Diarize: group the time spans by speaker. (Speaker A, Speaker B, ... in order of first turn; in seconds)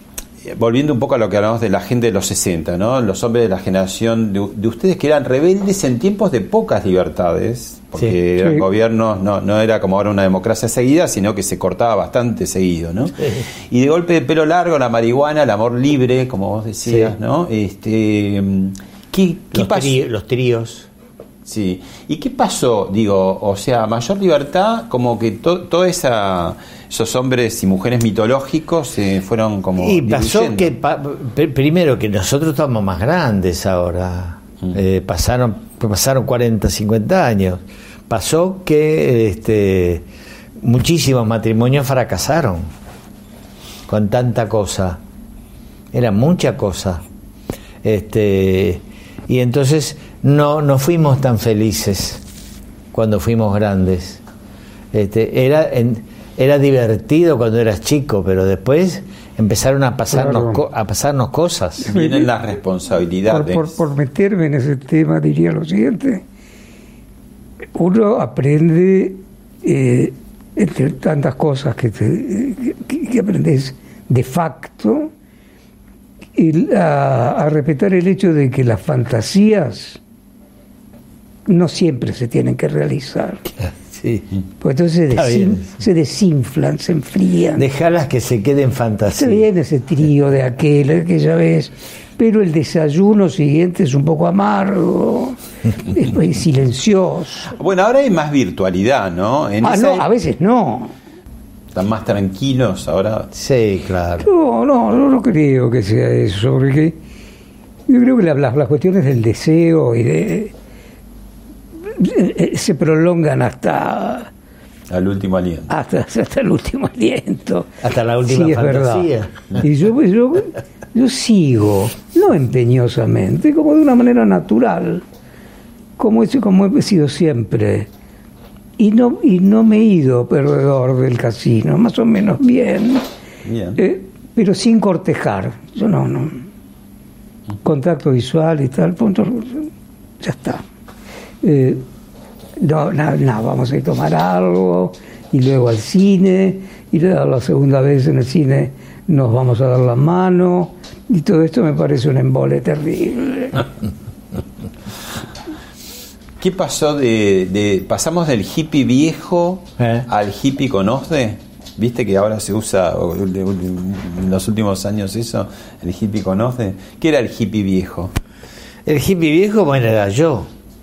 Speaker A: 0.5-13.2, 13.7-20.0, 21.5-30.7, 61.9-63.8, 97.5-100.0, 101.7-103.3, 114.9-115.7, 133.4-133.8, 156.4-168.1
Speaker B: 13.2-13.5, 16.9-17.1, 19.5-20.9, 29.8-40.1, 40.6-42.7, 43.9-45.0, 45.9-47.0, 47.8-52.2, 52.9-54.2, 54.9-61.9, 83.6-84.3, 85.1-85.7, 87.5-89.5, 103.3-104.3, 117.8-119.6, 159.8-160.1, 168.9-170.5
Speaker C: 60.1-60.6, 61.9-62.3, 63.3-66.2, 67.8-75.1, 76.4-80.0, 81.5-83.5, 84.6-87.6, 89.2-97.5, 99.6-101.0, 104.2-107.0, 107.9-110.5, 111.9-114.3, 115.7-117.7, 118.2-119.1, 119.6-125.0, 126.0-127.9, 128.8-133.0, 133.8-136.5, 137.6-139.7, 140.2-140.6, 141.4-141.8, 142.6-153.7